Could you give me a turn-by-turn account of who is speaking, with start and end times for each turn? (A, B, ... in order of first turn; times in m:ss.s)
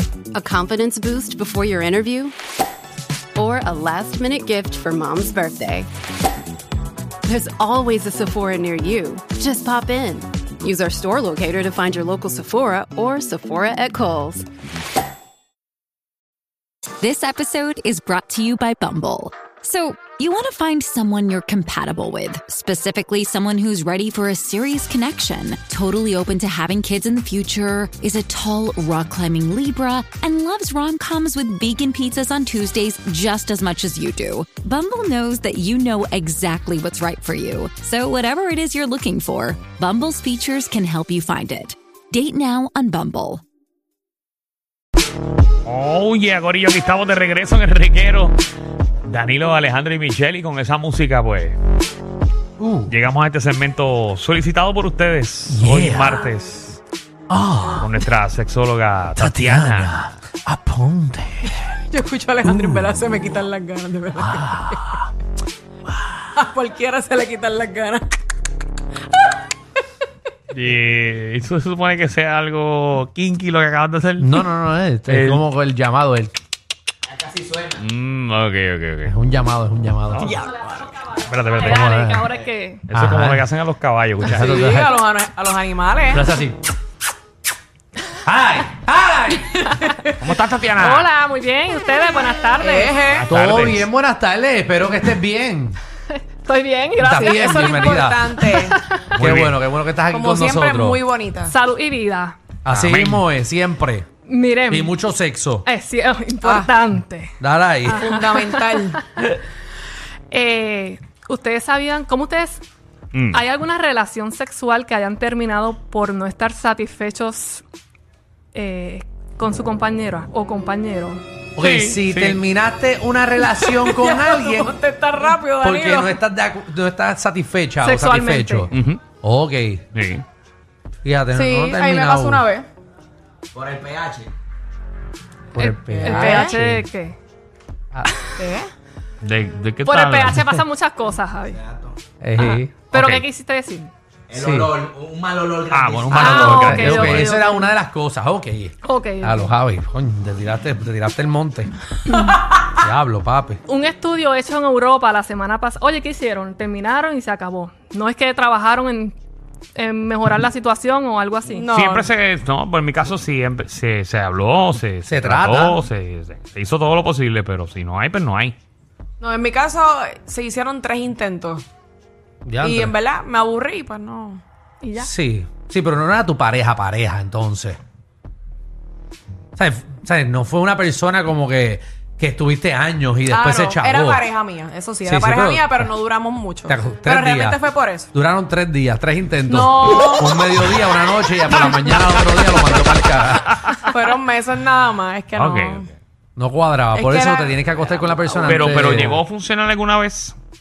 0:00.3-0:02.3 A
0:03.4-0:05.9 A
0:07.2-0:14.5 A
0:17.0-0:43.4 B
0:45.6-0:48.3 C
0:49.0-0:51.6 C
0:52.6-0:52.9 D
0:52.9-0:56.8 C
0:55.5-0:56.3 D
0:57.3-0:57.9 D
0:57.8-1:00.0 C
0:59.2-1:01.7 D
1:01.9-1:04.8 E
1:02.4-1:02.9 D
1:04.2-1:05.1 D
1:06.3-1:08.0 E
1:10.5-1:14.4 C
1:14.2-1:16.3 D
1:15.1-1:15.4 C
1:17.2-1:17.7 F
1:17.7-1:19.1 C
1:19.0-1:20.4 D
1:20.1-1:21.9 C
1:21.6-1:22.8 G
1:21.6-1:22.3 D
1:22.9-1:23.5 D
1:22.9-1:24.6 C
1:24.2-1:25.0 D
1:24.4-1:26.2 E
1:26.1-1:26.6 D
1:28.2-1:29.6 D
1:30.2-1:31.1 C
1:30.8-1:33.0 G
1:32.6-1:33.2 E
1:33.1-1:33.9 C
1:33.3-1:35.8 D
1:36.1-1:39.0 G
1:37.0-1:38.3 D
1:37.1-1:38.8 E
1:39.1-1:39.6 C
1:39.2-1:41.0 D
1:40.1-1:41.5 E
1:41.5-1:42.4 G
1:42.6-1:44.1 D
1:42.7-1:43.2 C
1:44.2-1:44.9 G
1:44.7-1:45.6 D
1:45.6-1:49.2 G
1:46.4-1:46.7 E
1:47.4-1:48.0 D
1:47.9-1:49.0 E
1:50.3-1:52.6 G
1:53.1-1:53.4 C
1:53.3-1:57.6 G
1:58.5-2:01.2 G
2:01.6-2:04.7 D
2:01.6-2:02.4 C
2:03.6-2:06.1 E
2:05.6-2:09.8 D
2:07.8-2:08.7 G
2:08.7-2:09.0 C
2:09.9-2:10.2 C
2:11.0-2:12.4 D
2:11.3-2:12.7 E
2:13.5-2:14.3 F
2:15.5-2:16.8 D
2:15.6-2:17.2 G
2:16.1-2:16.5 E
2:18.4-2:18.7 E
2:19.2-2:20.4 C
2:19.8-2:21.6 G
2:22.2-2:22.7 D
2:22.4-2:23.9 G
2:22.9-2:23.2 C
2:24.3-2:26.7 F
2:24.3-2:24.8 D
2:25.7-2:27.3 C
2:26.1-2:31.7 D
2:26.2-2:27.3 G
2:28.8-2:29.5 G
2:32.7-2:33.6 D
2:33.6-2:39.2 G
2:39.7-2:41.7 G
2:41.6-2:42.1 E
2:41.7-2:48.6 C
2:45.0-2:45.8 D
2:49.2-2:51.6 E
2:52.4-2:52.9 D
2:52.6-2:54.4 E
2:54.8-2:55.1 G
2:55.0-2:57.8 D
2:59.6-3:04.2 D
3:03.3-3:08.1 E
3:05.0-3:05.9 D
3:06.7-3:07.6 D
3:08.1-3:13.6 D
3:09.5-3:10.5 E
3:13.9-3:15.9 E
3:15.3-3:15.8 C
3:16.4-3:19.2 D
3:16.9-3:17.6 E
3:18.2-3:18.5 E
3:18.4-3:20.4 C